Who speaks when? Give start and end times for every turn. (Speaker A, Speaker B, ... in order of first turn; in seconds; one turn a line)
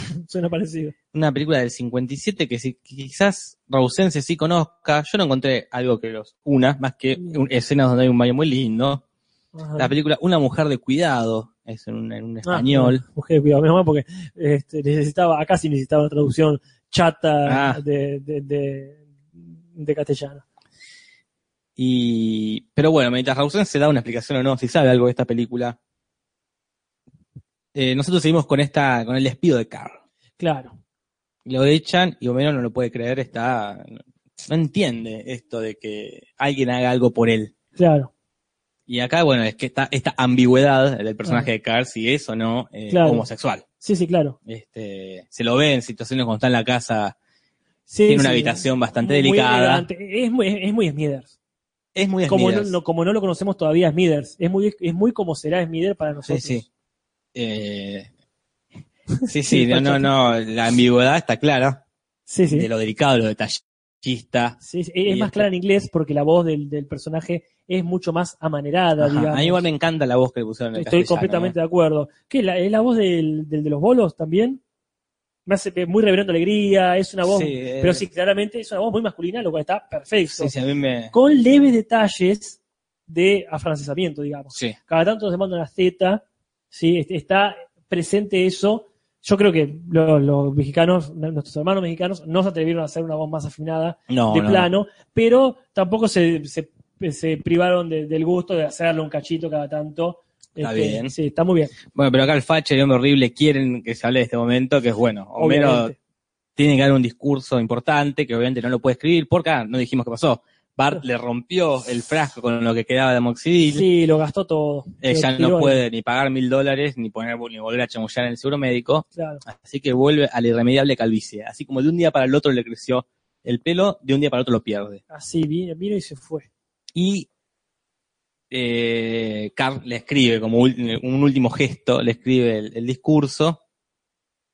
Speaker A: 0.1-0.9
Speaker B: 1.1-9.0
Speaker A: 7.2-7.4
Speaker A: 9.5-9.9
Speaker B: 9.8-13.0
Speaker A: 12.4-20.4
Speaker B: 17.5-17.8
Speaker B: 21.8-25.8
Speaker B: 27.7-30.0
Speaker A: 30.4-30.8
Speaker B: 31.5-37.5
Speaker A: 37.8-38.1
Speaker B: 38.9-43.6
Speaker A: 42.9-43.3
Speaker A: 43.8-44.4
Speaker B: 44.5-47.1
Speaker A: 47.9-51.3
Speaker B: 48.1-49.9
Speaker B: 52.0-52.8
Speaker A: 52.3-56.6
Speaker B: 56.3-56.6
Speaker B: 57.4-58.1
Speaker B: 59.3-61.8
Speaker A: 59.4-60.1
Speaker A: 62.3-62.7
Speaker B: 62.5-65.5
Speaker A: 64.6-69.6
Speaker B: 69.0-71.5
Speaker A: 70.8-74.6
Speaker A: 75.5-80.5
Speaker B: 77.2-78.0
Speaker B: 80.3-81.1
Speaker A: 81.1-101.8
Speaker B: 94.1-94.7
Speaker B: 100.6-101.1
Speaker B: 101.9-105.9
Speaker A: 105.4-106.0
Speaker B: 106.6-113.8
Speaker A: 113.7-115.8
Speaker B: 115.0-125.0
Speaker A: 119.2-119.4
Speaker A: 125.1-126.5
Speaker B: 127.0-127.3
Speaker B: 128.5-133.6